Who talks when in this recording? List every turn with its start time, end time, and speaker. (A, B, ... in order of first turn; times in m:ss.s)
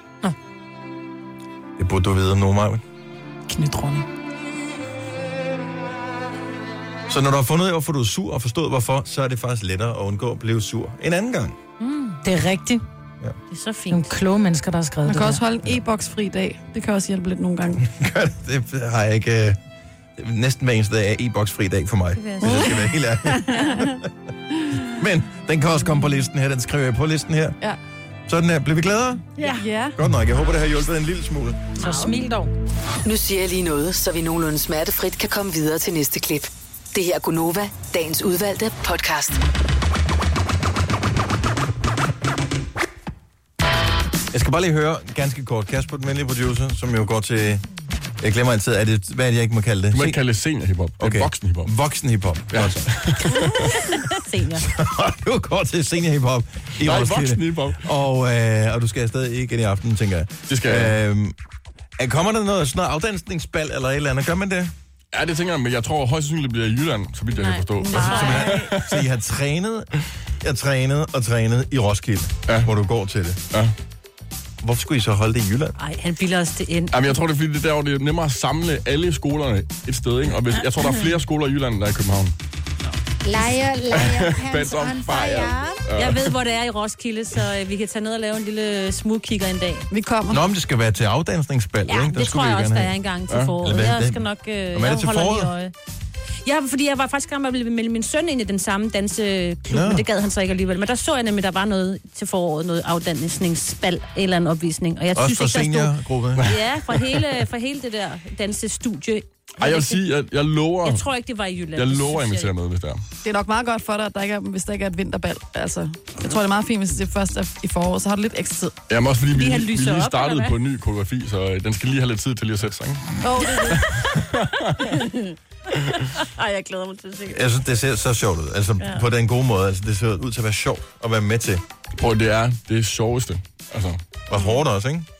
0:01.8-0:02.8 A
0:03.5-0:04.1 B
0:07.1-0:11.6 A
0:11.8-0:12.8 B
0:13.5-0:14.1 C
0:13.9-0:15.4 B
0:15.0-0:17.8 D
0:17.8-0:19.6 A
0:20.2-0:24.1 A
0:22.1-0:22.8 C
0:22.4-0:24.0 D
0:24.9-0:27.6 A
0:28.3-0:29.3 A
0:29.4-0:29.6 B
0:29.4-0:30.0 D
0:30.0-0:31.7 A
0:31.8-0:32.5 B
0:31.8-0:32.1 C
0:33.0-0:39.4 E
0:44.3-0:47.6 A
0:48.2-0:50.2 A
0:49.9-0:51.7 F
0:51.0-0:54.0 A
0:52.5-0:53.7 F
0:53.3-0:54.7 C
0:54.5-1:01.4 A
0:56.8-0:57.9 F
1:00.5-1:01.0 F
1:02.0-1:04.7 A
1:05.1-1:09.0 F
1:07.3-1:08.7 C
1:07.8-1:08.4 D
1:08.0-1:13.4 A
1:14.6-1:15.7 A
1:15.8-1:17.1 C
1:16.9-1:22.3 F
1:22.9-1:23.5 C
1:23.2-1:25.8 B
1:23.9-1:26.4 F
1:26.0-1:29.9 C
1:29.9-1:30.4 D
1:30.3-1:32.9 A
1:31.8-1:35.7 C
1:33.3-1:33.6 F
1:33.5-1:35.5 A
1:36.4-1:50.0 C
1:39.7-1:40.0 A
1:45.1-1:46.6 A
1:46.4-1:47.0 F
1:49.6-1:51.0 F
1:50.8-1:52.5 C
1:51.7-1:53.0 F
1:53.2-1:58.8 D
1:58.9-2:03.2 F
1:59.3-2:00.6 C
2:03.2-2:03.8 D
2:03.4-2:07.4 C
2:04.3-2:04.8 F
2:07.3-2:11.6 A
2:08.8-2:09.0 C
2:11.9-2:14.0 F
2:14.3-2:15.1 A
2:14.3-2:14.6 C